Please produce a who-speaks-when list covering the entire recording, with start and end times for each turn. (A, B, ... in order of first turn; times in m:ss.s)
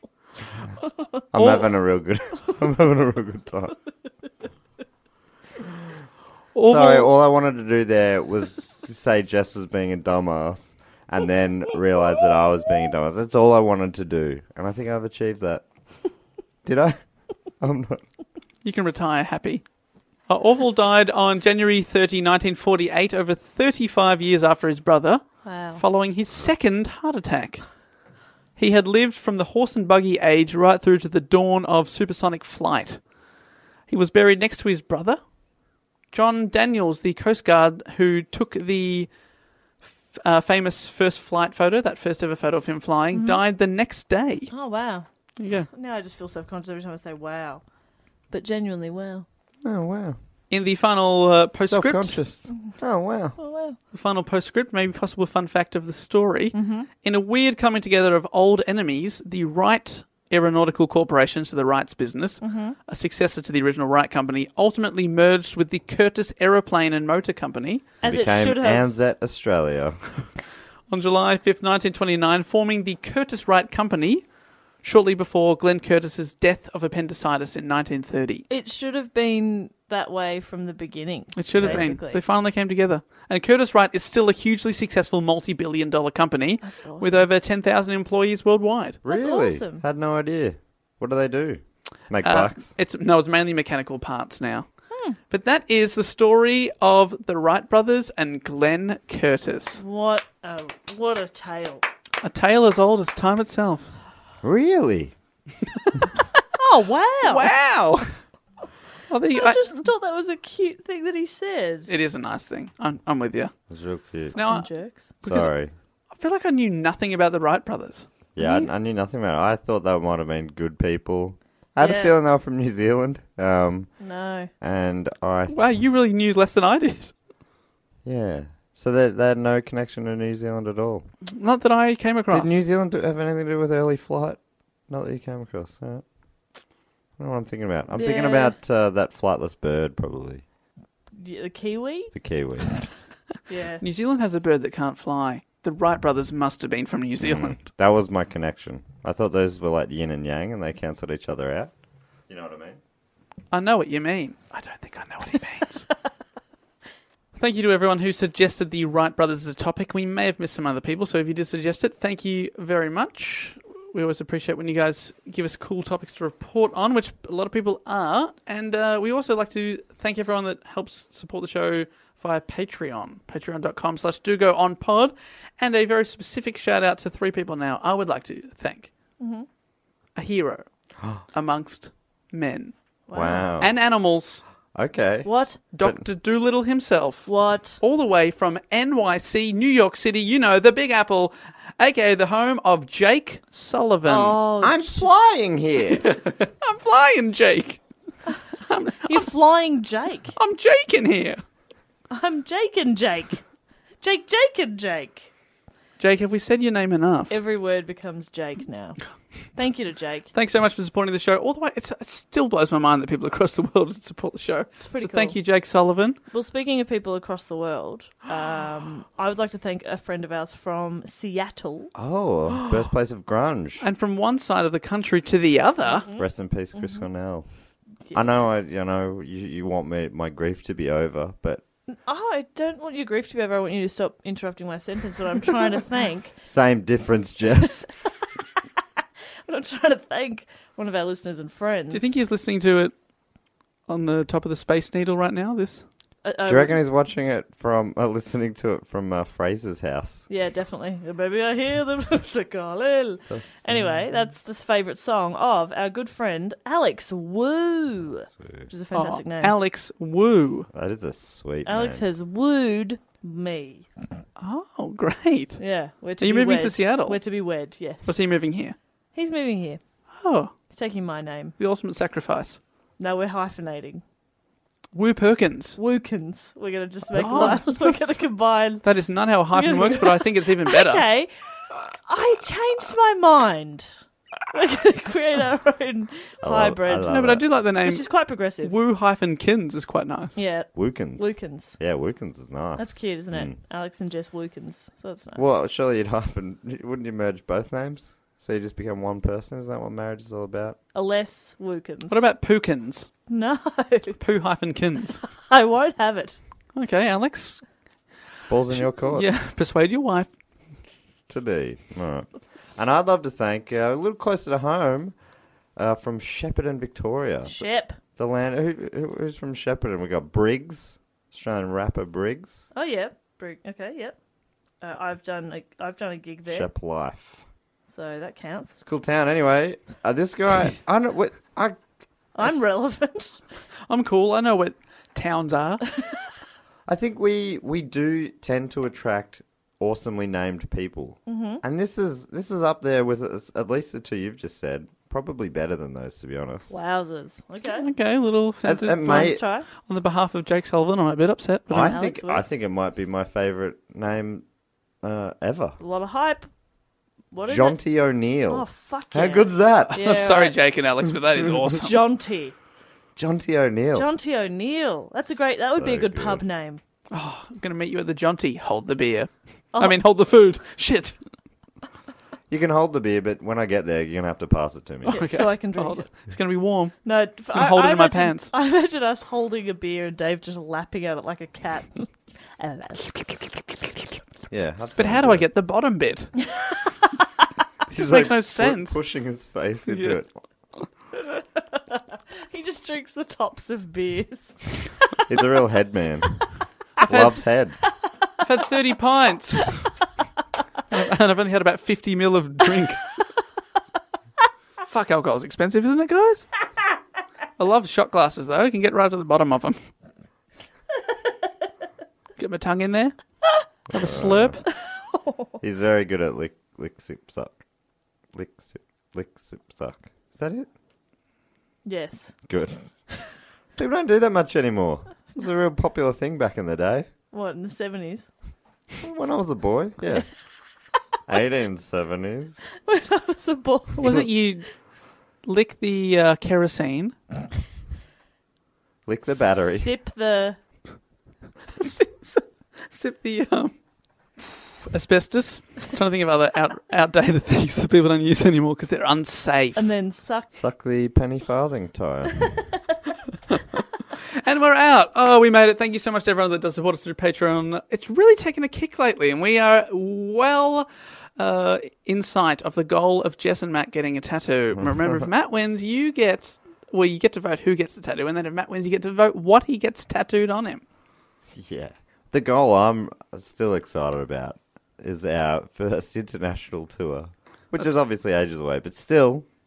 0:01.3-0:03.8 A
0:01.4-0:01.6 B
0:06.5-0:07.1 B
0:06.6-0:15.6 A
0:16.6-0:17.0 A
0:17.6-0:18.0 A
0:18.6-0:19.6 B
0:20.3-0:27.6 B
0:25.4-0:25.8 C
0:28.6-0:33.0 B
0:33.9-0:35.2 B
0:36.1-0:39.1 B
0:39.8-0:44.5 B
0:43.1-0:43.4 C
0:44.5-0:45.0 C
0:45.4-0:45.7 B
0:45.7-0:47.6 C
0:48.3-0:49.2 C
0:49.6-0:50.2 A
0:50.5-0:52.2 B
0:51.6-0:53.4 A
0:52.5-0:52.8 C
0:53.4-0:53.8 C
0:53.9-1:07.8 B
0:56.5-0:56.9 C
1:02.4-1:02.8 C
1:08.0-1:08.9 C
1:08.0-1:10.3 A
1:10.9-1:14.2 B
1:14.8-1:18.4 B
1:18.5-1:22.2 C
1:21.4-1:29.0 B
1:21.6-1:21.8 A
1:26.6-1:27.3 C
1:29.0-1:32.7 A
1:29.0-1:29.8 C
1:32.2-1:34.7 B
1:34.9-1:35.2 C
1:35.3-1:39.8 B
1:39.8-1:41.8 C
1:42.2-1:43.9 B
1:44.4-1:45.1 A
1:46.5-1:47.5 C
1:47.2-1:48.1 B
1:49.1-1:49.7 B
1:49.3-1:51.9 C
1:51.9-1:53.6 B
1:53.7-1:54.4 A
1:54.3-1:55.1 C
1:54.3-1:55.5 B
1:55.2-1:55.7 A
1:56.1-1:58.7 B
1:58.3-2:04.0 A
2:01.8-2:02.2 C
2:04.0-2:04.5 C
2:04.6-2:05.6 A
2:05.5-2:07.1 B
2:08.0-2:11.0 A
2:11.3-2:12.5 B
2:12.3-2:16.0 A
2:17.2-2:20.4 A
2:17.9-2:18.6 C
2:21.2-2:22.1 C
2:22.1-2:22.8 A
2:23.5-2:23.8 C
2:23.8-2:27.6 B
2:27.2-2:31.7 A
2:32.3-2:32.8 A
2:33.5-2:35.9 B
2:37.3-2:58.9 B
2:59.2-2:59.4 C
3:00.1-3:00.7 B
3:01.3-3:02.7 B
3:03.1-3:03.5 C
3:03.1-3:03.7 A
3:03.6-3:04.4 B
3:04.7-3:05.3 A
3:05.2-3:05.6 C
3:05.7-3:14.4 B
3:07.2-3:07.8 C
3:14.0-3:15.1 C
3:14.6-3:16.1 A
3:16.0-3:17.8 B
3:18.6-3:19.3 B
3:19.0-3:20.4 C
3:20.4-3:21.4 B
3:22.1-3:23.4 C
3:24.0-3:25.3 C
3:26.0-3:27.4 B
3:27.3-3:29.0 C
3:29.5-3:30.3 C
3:30.3-3:36.2 B
3:34.8-3:35.4 C
3:36.3-3:41.9 C
3:41.9-3:43.8 A
3:43.8-3:46.1 B
3:45.8-3:47.0 C
3:46.2-3:47.5 A
3:48.1-3:51.6 A
3:51.9-3:56.3 C
3:56.4-3:57.8 A
3:57.6-3:57.8 C
3:59.4-4:02.1 C
4:01.9-4:02.9 B
4:03.9-4:05.8 B
4:06.2-4:06.8 C
4:06.4-4:10.2 A
4:10.3-4:19.5 C
4:13.3-4:14.3 A
4:18.3-4:18.7 A
4:18.9-4:20.7 B
4:20.7-4:22.0 A
4:21.6-4:23.9 C
4:24.4-4:25.6 B
4:25.6-4:28.2 C
4:26.2-4:27.2 B
4:28.0-4:28.8 B
4:29.1-4:29.8 C
4:30.1-4:30.5 B
4:30.7-4:31.5 C
4:31.6-4:32.6 B
4:33.0-4:34.0 C
4:34.9-4:35.8 B
4:35.8-4:38.8 C
4:37.1-4:38.0 B
4:38.8-4:41.0 B
4:39.5-4:41.3 C
4:42.0-4:44.0 C
4:44.5-4:47.2 C
4:46.4-4:47.4 A
4:47.1-4:50.4 B
4:47.8-4:48.8 C
4:50.4-4:51.8 C
4:50.7-4:53.5 A
4:52.8-4:55.4 C
4:55.4-5:00.8 A
5:00.9-5:02.3 C
5:02.1-5:03.1 B
5:03.3-5:04.2 C
5:04.2-5:05.2 B
5:05.4-5:06.4 C
5:06.7-5:07.6 B
5:08.5-5:09.3 A
5:08.7-5:10.3 B
5:11.3-5:15.2 A
5:15.8-5:17.6 A
5:17.4-5:18.0 C
5:18.2-5:22.6 A
5:22.7-5:24.2 C
5:24.8-5:26.7 C
5:26.4-5:27.4 A
5:27.9-5:28.8 C
5:28.8-5:31.8 A
5:32.3-5:33.4 C
5:33.9-5:35.8 B
5:36.9-5:46.8 A
5:41.3-5:41.6 C
5:46.7-5:47.9 C
5:47.6-5:52.0 B
5:48.6-5:49.4 A
5:49.0-5:49.7 C
5:51.7-5:54.4 A
5:51.8-5:52.4 C
5:55.0-5:55.8 A
5:55.8-5:56.5 C
5:57.3-5:57.8 C
5:57.4-6:00.0 A
5:58.5-6:00.6 C
5:59.9-6:02.0 B
6:01.7-6:02.5 C
6:03.2-6:04.1 A
6:03.9-6:06.8 C
6:05.3-6:06.4 A
6:07.1-6:11.2 B
6:09.7-6:10.0 C
6:12.5-6:15.2 A
6:15.0-6:16.1 C
6:15.1-6:18.5 B
6:17.0-6:23.6 C
6:24.5-6:25.5 A
6:25.0-6:26.3 B
6:26.4-6:27.2 C
6:27.9-6:30.3 A
6:27.9-6:29.0 B
6:29.9-6:30.2 B
6:31.7-6:35.0 C
6:35.3-6:36.5 A
6:37.0-6:37.8 A
6:38.4-6:39.8 B
6:40.9-6:43.0 B
6:44.8-6:46.5 B
6:47.6-6:49.8 B
6:52.4-6:53.1 B
6:53.9-6:54.6 B
6:53.9-6:54.6 A
6:54.6-6:55.5 C
6:55.6-6:57.6 A
6:58.3-7:00.7 A
7:01.8-7:02.5 C
7:02.5-7:02.8 A
7:03.8-7:07.1 A
7:07.3-7:08.3 C
7:09.0-7:10.3 A
7:11.3-7:12.6 A
7:12.8-7:14.4 C
7:14.0-7:14.7 B
7:15.4-7:17.2 B
7:19.0-7:19.9 A
7:19.3-7:20.6 C
7:21.7-7:23.7 B
7:24.9-7:29.9 B
7:29.8-7:30.5 C
7:30.5-7:32.5 A
7:34.3-7:50.8 B
7:51.5-7:59.4 A